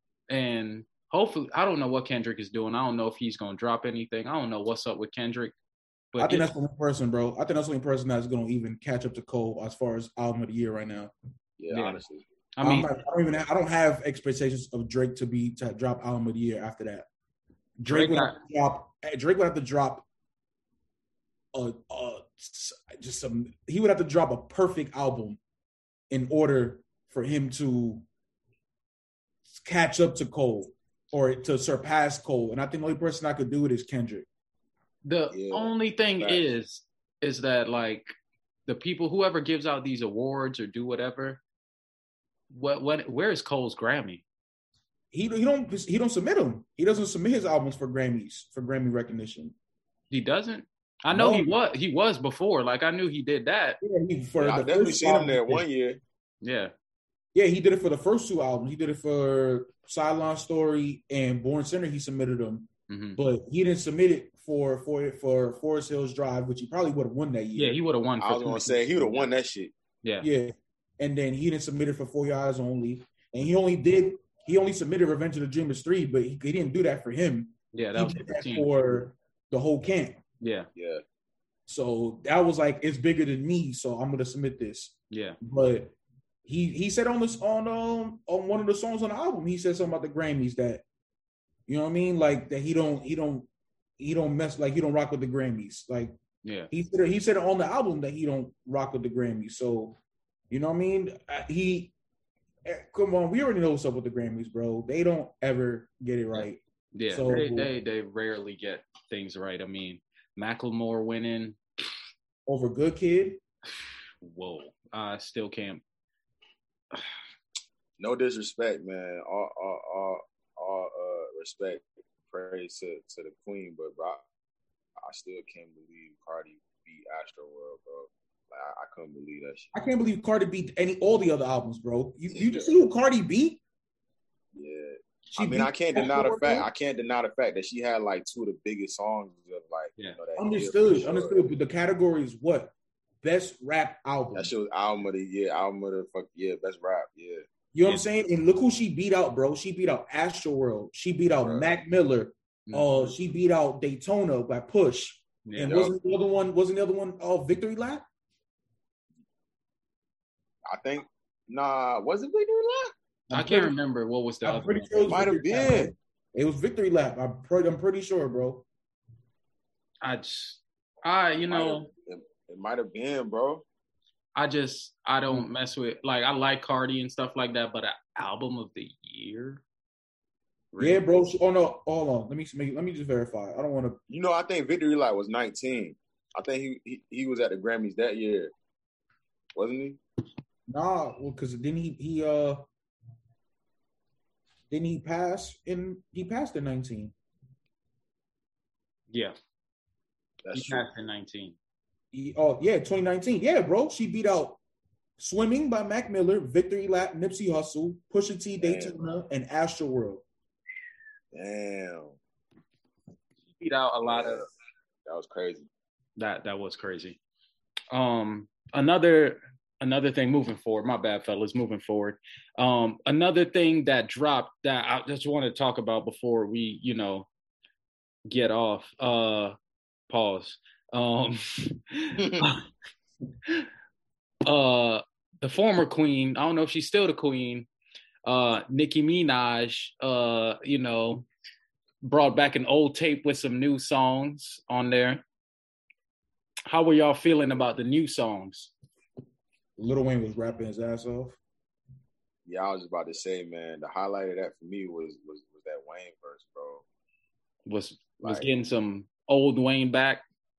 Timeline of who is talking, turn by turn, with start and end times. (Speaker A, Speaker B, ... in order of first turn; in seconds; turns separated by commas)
Speaker A: 0.3-5.5, Speaker A: 6.1-6.5, Speaker B: 6.2-11.1, Speaker C: 11.6-12.2, Speaker A: 11.7-12.0, Speaker A: 12.6-12.9, Speaker B: 12.6-17.1, Speaker B: 17.8-20.1, Speaker A: 17.9-18.4, Speaker B: 21.5-25.4, Speaker B: 26.1-28.1, Speaker B: 29.5-34.3, Speaker A: 35.0-38.1, Speaker C: 35.3-36.4, Speaker A: 38.7-41.4, Speaker A: 42.5-44.2, Speaker B: 45.1-49.5, Speaker A: 50.1-53.8, Speaker B: 51.1-51.5, Speaker B: 53.8-55.6, Speaker C: 54.4-56.0, Speaker A: 56.4-56.7, Speaker B: 57.3-67.8, Speaker A: 62.9-63.2, Speaker A: 67.6-69.2, Speaker C: 68.2-69.7, Speaker B: 70.2-80.2, Speaker A: 77.7-78.7, Speaker A: 80.4-80.7, Speaker C: 80.8-81.0, Speaker B: 81.7-86.0, Speaker A: 85.1-85.4, Speaker B: 86.5-90.8, Speaker B: 91.7-96.2, Speaker A: 96.4-96.7, Speaker B: 96.7-100.0, Speaker B: 100.5-101.9, Speaker B: 102.7-107.7, Speaker A: 106.3-111.6, Speaker B: 112.5-113.4, Speaker A: 114.2-115.8, Speaker C: 118.0-124.2, Speaker C: 125.0-129.7, Speaker B: 129.7-133.6, Speaker C: 132.3-132.7, Speaker C: 134.6-141.4, Speaker B: 135.3-136.7, Speaker B: 140.4-144.5, Speaker C: 144.3-147.4, Speaker B: 147.7-158.1, Speaker C: 151.4-151.7, Speaker A: 152.7-153.1, Speaker A: 155.5-155.8, Speaker C: 155.7-155.9, Speaker C: 160.7-162.9, Speaker B: 163.3-163.8, Speaker A: 163.3-165.1, Speaker B: 164.4-168.7, Speaker C: 165.1-165.9, Speaker A: 170.0-171.9, Speaker C: 171.5-173.7, Speaker A: 174.4-179.6, Speaker A: 180.7-181.1, Speaker B: 180.8-184.0, Speaker C: 184.1-188.5, Speaker C: 189.6-190.0, Speaker B: 190.7-192.7, Speaker B: 194.7-197.1, Speaker C: 200.4-200.9, Speaker A: 200.5-201.6, Speaker B: 202.1-204.6, Speaker B: 205.2-210.2, Speaker C: 208.6-209.0, Speaker C: 211.3-212.2, Speaker A: 213.6-214.5, Speaker C: 214.0-214.5, Speaker C: 215.1-215.7, Speaker A: 216.2-217.2, Speaker A: 217.9-227.3, Speaker A: 228.3-229.6, Speaker A: 230.1-232.6, Speaker C: 232.2-232.4, Speaker A: 234.4-237.7, Speaker A: 238.2-241.3, Speaker A: 242.0-245.2, Speaker A: 246.7-248.7, Speaker B: 249.8-251.4, Speaker C: 252.5-256.8, Speaker A: 257.7-260.2, Speaker C: 258.2-258.5